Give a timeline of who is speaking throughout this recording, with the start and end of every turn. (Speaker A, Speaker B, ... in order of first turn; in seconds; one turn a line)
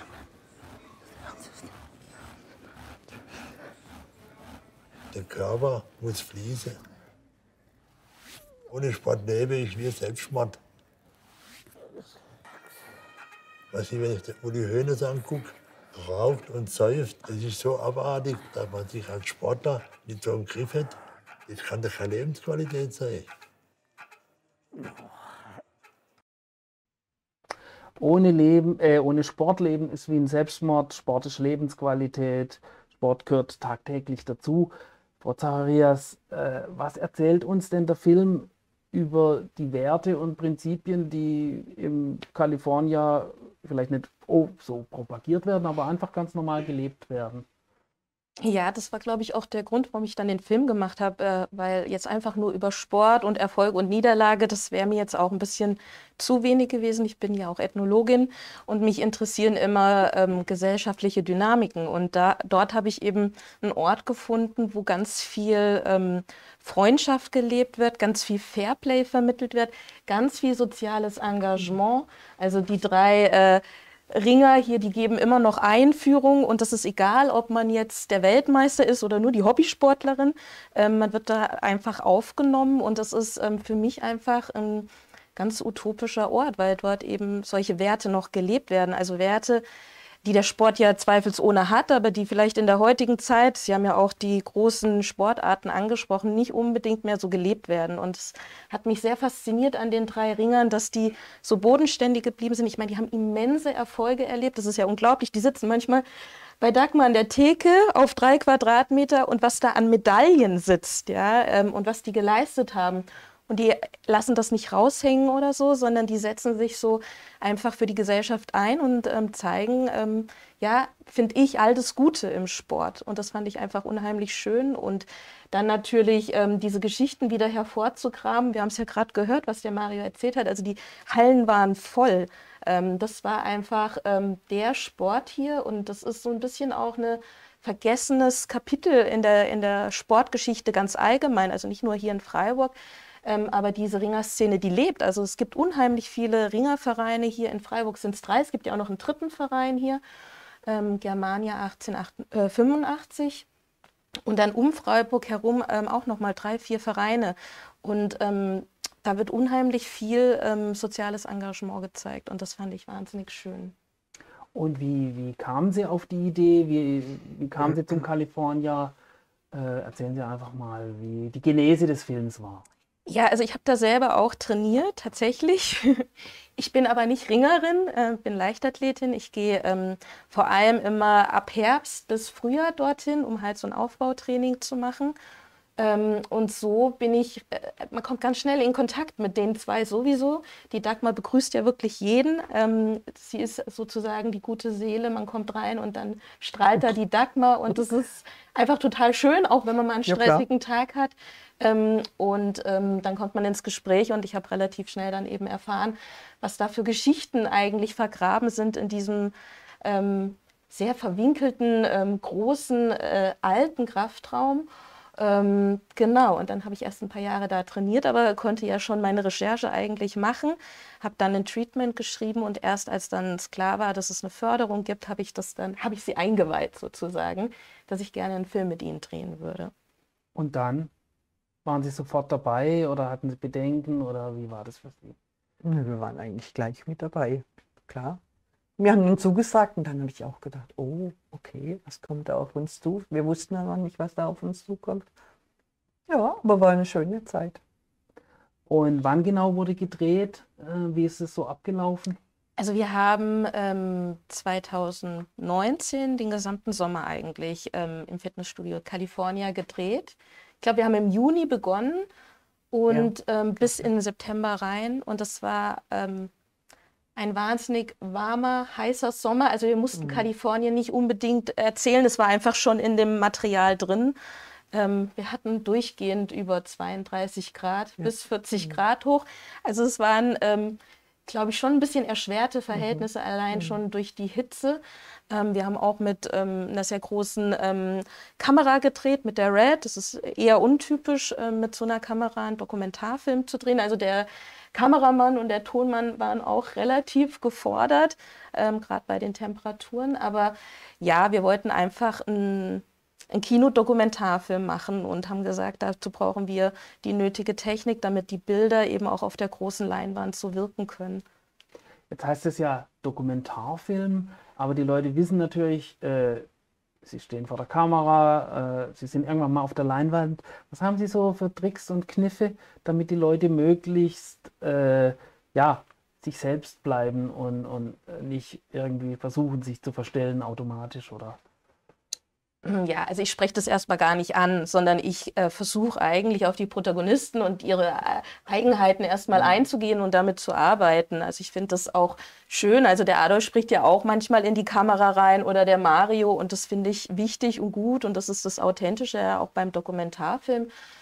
Speaker A: 5.1-6.8
Speaker A: 8.7-10.6
Speaker A: 13.7-23.3
Speaker B: 28.0-47.5
Speaker C: 48.4-89.6
Speaker C: 90.2-106.0
Speaker C: 106.6-150.0
Speaker C: 150.7-153.4
Speaker C: 154.2-163.7
Speaker B: 164.5-168.9
Speaker B: 169.5-172.6
Speaker C: 173.1-185.2
Speaker C: 185.8-229.7
Speaker D: 200.1-200.5
Speaker B: 230.3-230.9
Speaker B: 231.6-235.2
Speaker D: 235.6-238.2
Speaker D: 238.8-245.1
Speaker D: 246.1-247.6
Speaker B: 248.7-252.2
Speaker C: 252.6-262.1
Speaker C: 262.7-266.3
Speaker C: 267.1-274.1
Speaker D: 270.0-270.3
Speaker C: 274.7-311.2
Speaker D: 282.7-283.8
Speaker B: 312.1-316.5
Speaker B: 317.0-331.4
Speaker C: 332.6-350.7